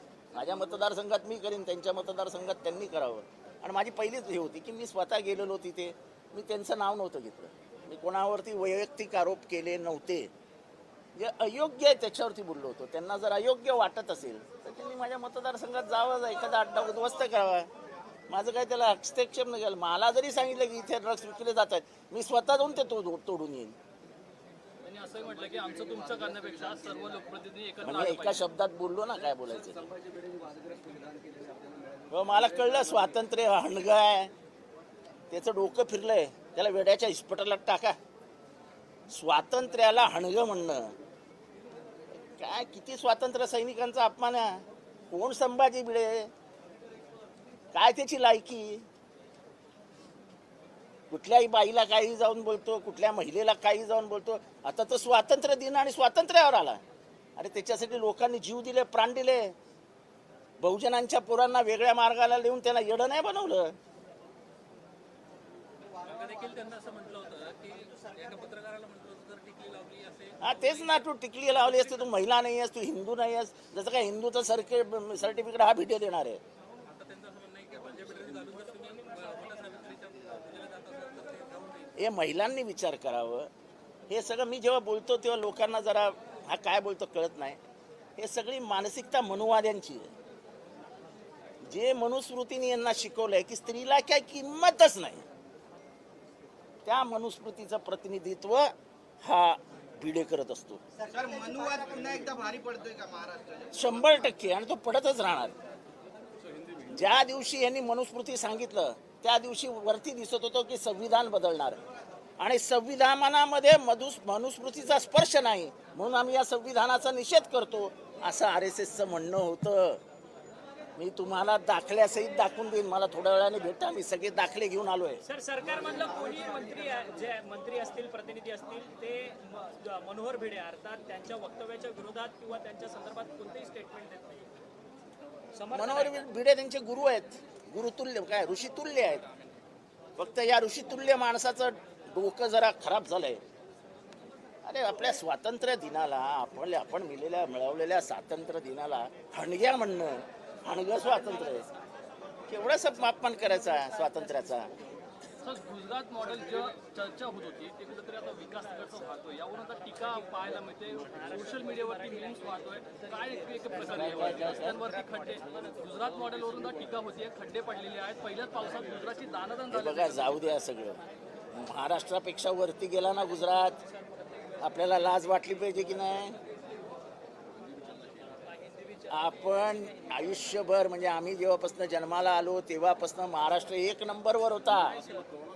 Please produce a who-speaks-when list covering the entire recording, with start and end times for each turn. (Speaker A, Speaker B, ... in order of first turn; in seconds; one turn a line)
Speaker A: 0.3-10.3
Speaker A: 11.2-17.7
Speaker A: 18.3-23.8
Speaker B: 24.8-28.4
Speaker A: 27.8-29.8
Speaker C: 29.4-32.0
Speaker A: 32.1-34.3
Speaker A: 35.3-38.0
Speaker A: 39.1-40.9
Speaker A: 42.4-46.3
Speaker A: 47.7-48.8
Speaker A: 51.1-56.8
Speaker A: 57.4-59.5
Speaker A: 60.6-63.7
Speaker B: 66.0-70.9
Speaker A: 70.4-76.4
Speaker B: 71.7-72.0
Speaker B: 76.8-81.9
Speaker A: 82.0-83.5
Speaker A: 84.1-87.6
Speaker A: 88.2-90.1
Speaker A: 91.6-95.2
Speaker A: 96.8-98.7
Speaker A: 99.2-100.8
Speaker C: 101.0-103.7
Speaker A: 103.7-105.5
Speaker A: 106.9-111.8
Speaker A: 112.4-120.0
Speaker A: 121.0-125.2
Speaker D: 125.2-134.4
Speaker D: 135.5-136.3
Speaker A: 135.7-139.2
Speaker A: 140.2-143.4
Speaker A: 144.6-151.7
Speaker A: 152.5-154.7
Speaker B: 155.4-170.5
Speaker D: 161.5-162.2
Speaker A: 163.8-164.8
Speaker A: 169.7-171.0
Speaker A: 171.5-173.8
Speaker A: 174.6-176.4
Speaker A: 179.1-185.0